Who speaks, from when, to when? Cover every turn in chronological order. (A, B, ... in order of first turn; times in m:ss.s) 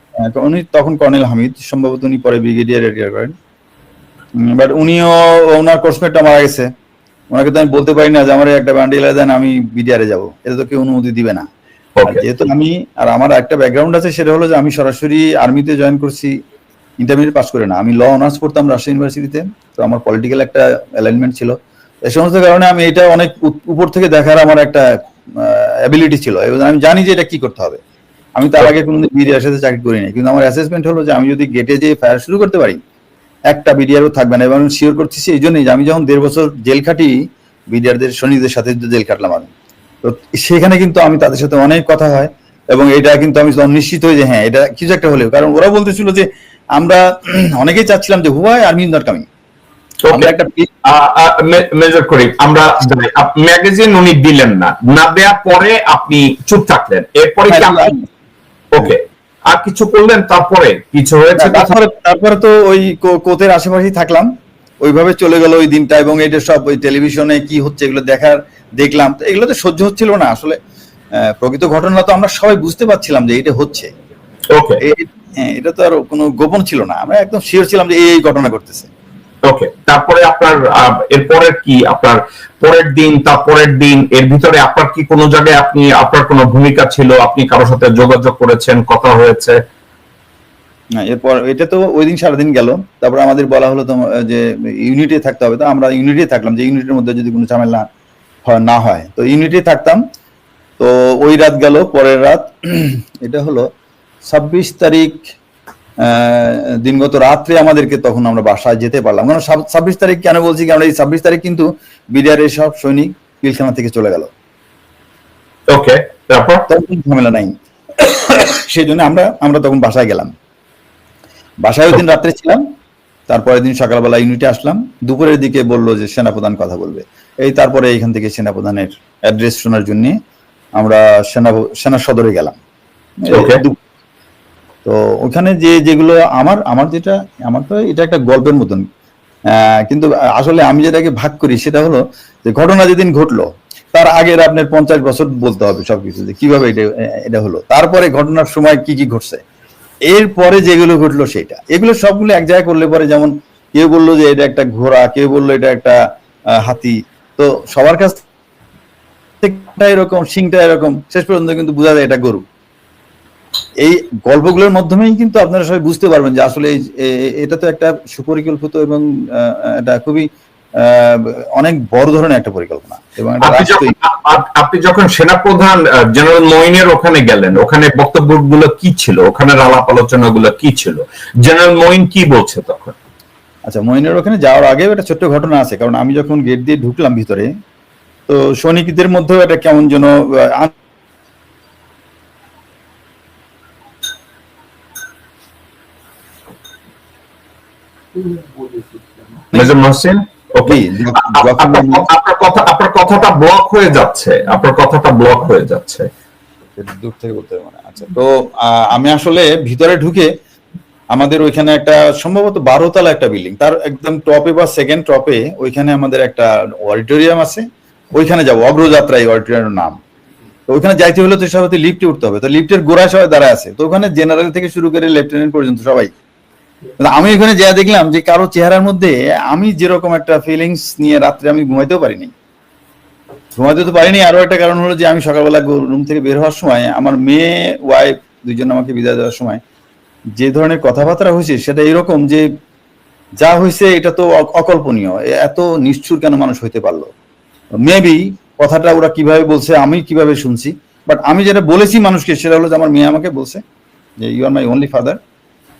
0:00.2-0:03.3 A
0:04.4-0:06.7 A
0:07.3-0:11.5 A
0:12.0-0:12.2 B
0:12.1-0:16.3 A
0:17.0-0:21.6 A
0:22.1-0:27.8 A
0:28.4-0:32.8 A
0:33.5-0:37.1 A
0:37.7-0:39.5 A
0:40.0-0:49.2 A
0:50.0-0:50.3 B
0:50.1-0:50.7 A
0:50.8-0:57.9 B
0:57.5-0:58.0 A
0:58.7-1:01.7 B
1:01.4-1:04.3 A
1:04.8-1:10.6 A
1:11.2-1:13.9 A
1:14.5-1:14.8 B
1:14.8-1:18.9 A
1:19.4-1:29.6 B
1:31.0-1:37.8 A
1:38.4-1:40.0 A
1:40.8-1:43.6 A
1:44.2-1:45.2 A
1:46.0-1:54.3 A
1:55.7-1:56.6 B
1:56.7-2:00.3 A
2:01.6-2:02.6 A
2:03.3-2:10.1 A
2:10.8-2:12.6 A
2:13.2-2:13.8 A
2:13.3-2:13.6 B
2:14.8-2:18.8 A
2:19.5-2:29.4 A
2:30.1-2:36.0 A
2:36.6-2:38.2 A
2:39.4-2:42.4 A
2:43.8-2:50.2 A
2:50.8-2:54.0 A
2:53.4-3:03.0 B
3:03.7-3:07.5 A
3:08.3-3:10.7 A
3:19.5-3:26.1 B
3:20.7-3:22.1 A
3:26.8-3:30.3 A
3:31.1-3:40.0 A
3:40.7-3:46.1 A
3:47.0-3:52.3 A
3:53.6-3:59.6 A
4:00.4-4:02.4 A
4:03.4-4:07.1 A
4:07.8-4:13.6 A
4:14.2-4:15.2 A